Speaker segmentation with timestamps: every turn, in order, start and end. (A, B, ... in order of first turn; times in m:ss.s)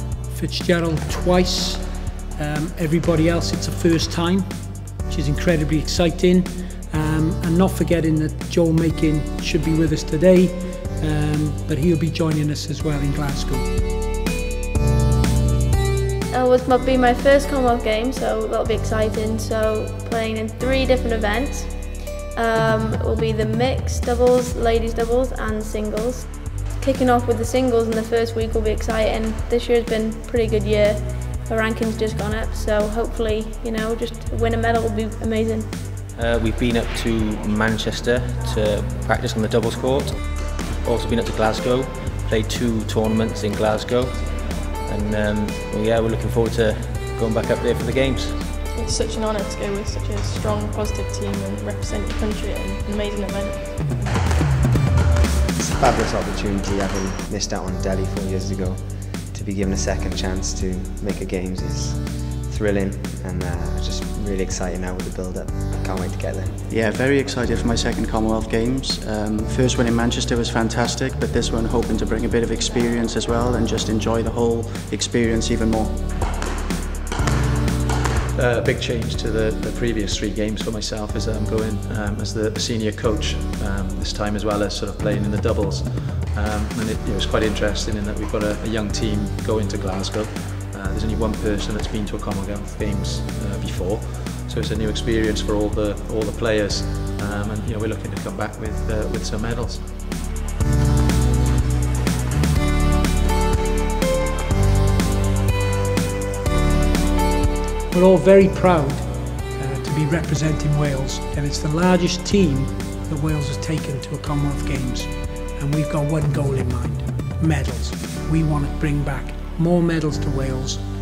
0:00.3-0:04.5 A
0:05.1-0:13.7 A
0:16.3-0:26.3 B
0:26.8-0:35.8 B
0:36.1-0:40.2 C
0:40.7-0:48.4 C
0:48.7-0:54.1 D
0:55.5-1:06.7 E
1:06.7-1:16.0 F
1:18.3-1:40.0 G
1:47.9-2:00.8 A